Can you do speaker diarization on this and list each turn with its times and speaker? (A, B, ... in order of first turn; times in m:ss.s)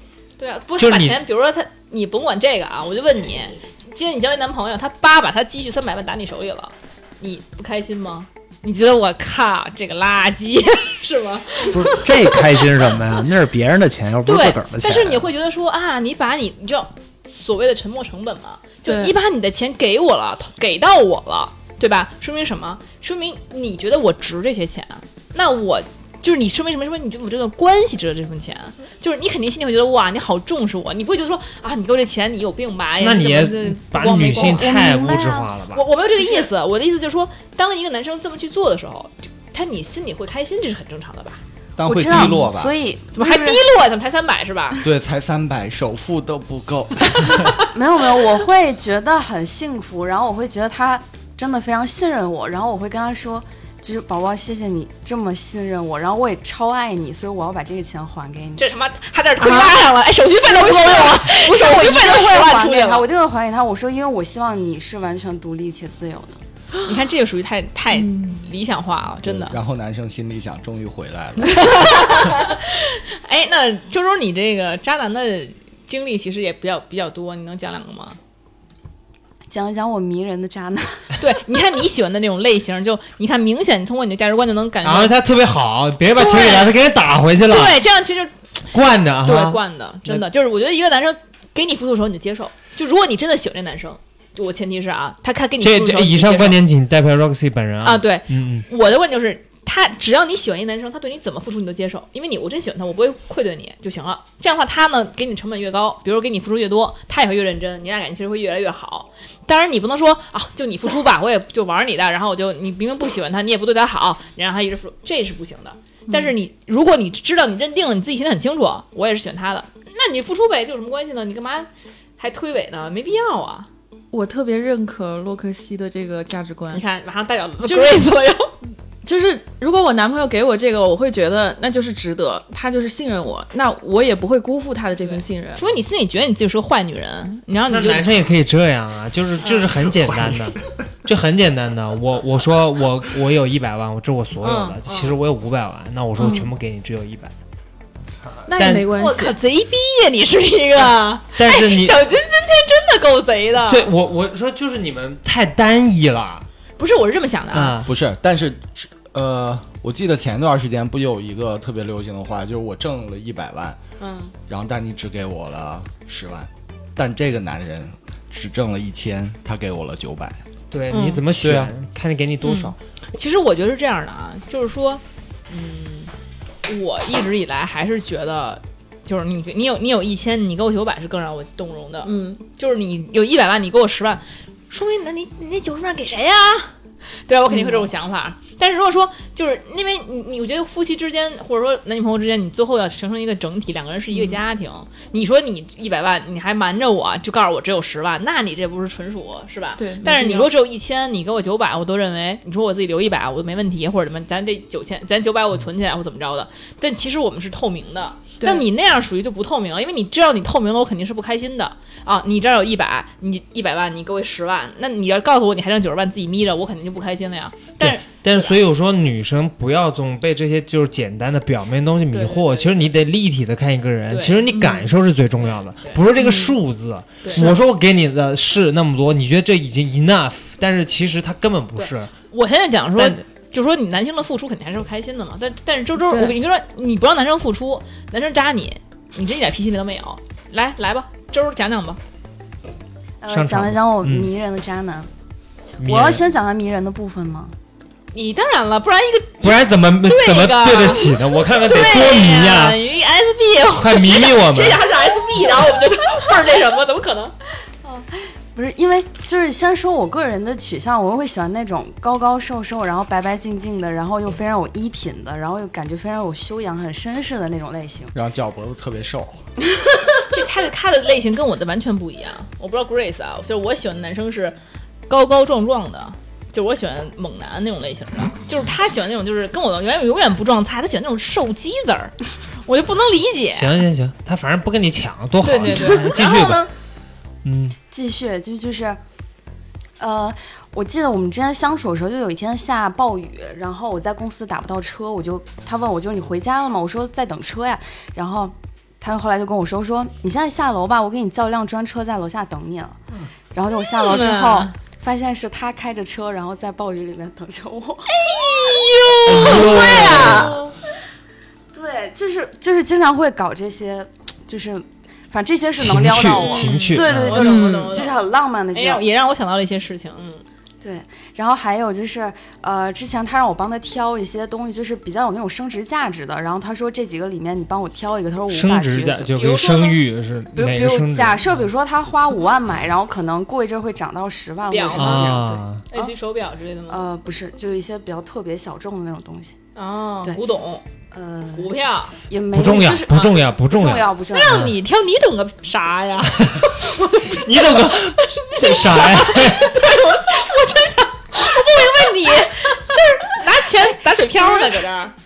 0:00.4-0:12.6 A
0:00.8-0:01.2 B
0:11.6-0:15.3 C
0:14.2-0:41.4 A
0:18.8-0:19.1 D
0:33.0-0:35.8 B
0:34.3-0:35.5 E
0:41.8-0:42.8 F
0:41.8-0:43.6 E
0:43.1-0:44.8 A
0:44.8-0:47.6 F
0:47.7-0:58.6 E
0:58.6-1:03.1 A
0:59.4-0:59.8 E
1:00.4-1:06.4 E
1:06.8-1:09.6 A
1:07.9-1:08.4 D
1:09.2-1:12.3 F
1:11.4-1:18.2 A
1:19.5-1:21.1 E
1:21.2-1:25.1 A
1:24.8-1:27.8 B
1:26.2-1:26.7 A
1:27.4-1:28.3 A
1:28.7-1:30.3 B
1:29.2-1:36.6 A
1:35.6-1:38.7 B
1:37.8-2:03.7 A
1:56.1-1:56.3 D
2:04.1-2:06.8 D
2:06.7-2:08.5 A
2:07.6-2:08.2 D
2:09.0-2:15.6 D
2:15.0-2:18.1 A
2:17.7-2:27.3 B
2:19.4-2:19.7 A
2:24.4-2:25.2 A
2:26.2-2:26.4 A
2:28.5-2:29.4 D
2:28.6-2:29.0 B
2:28.9-2:33.9 A
2:31.4-2:32.0 B
2:33.7-2:36.5 B
2:36.8-2:37.8 A
2:37.5-2:37.9 B
2:37.8-2:43.8 F
2:44.0-2:44.3 A
2:44.5-2:50.4 F
2:50.7-2:52.8 B
2:50.9-2:51.2 A
2:51.4-2:51.7 C
2:52.4-2:56.1 A
2:56.6-3:06.7 A
3:02.0-3:02.4 D
3:07.3-3:38.6 A
3:07.5-3:07.9 D
3:14.1-3:14.4 D
3:19.8-3:20.5 D
3:28.4-3:28.6 D
3:37.8-3:52.1 B
3:42.1-3:42.9 A
3:44.1-3:46.0 A
3:46.2-3:46.6 D
3:47.2-3:47.6 A
3:51.8-4:02.0 A
3:56.0-3:56.4 D
4:03.2-4:05.1 E
4:03.3-4:04.3 B
4:05.8-4:06.2 B
4:05.8-4:07.5 E
4:08.1-4:17.3 A
4:09.4-4:12.8 B
4:13.8-4:14.8 B
4:17.8-4:28.1 E
4:28.1-4:29.4 F
4:30.3-4:34.6 A
4:35.1-4:43.8 A
4:43.5-4:46.7 B
4:45.4-4:46.6 A
4:45.7-4:46.6 E
4:47.4-4:47.8 B
4:47.9-4:49.0 E
4:50.0-5:03.0 E
5:03.5-5:08.2 E
5:03.9-5:04.7 A
5:08.1-5:10.7 A
5:09.2-5:10.6 B
5:09.5-5:10.1 E
5:11.7-5:19.0 E
5:15.8-5:17.5 B
5:16.3-5:20.4 A
5:17.4-5:18.0 D
5:20.8-5:29.3 E
5:28.5-5:31.7 B
5:29.3-5:30.0 A
5:30.5-5:36.1 E
5:34.7-5:37.0 A
5:34.9-5:35.8 B
5:36.9-5:39.6 E
5:39.8-5:40.8 A
5:41.1-5:41.8 E
5:41.5-5:42.2 A
5:42.3-5:44.6 E
5:42.5-5:44.8 B
5:43.1-5:43.4 A
5:44.3-5:55.1 A
5:46.4-5:49.8 B
5:54.3-5:54.6 E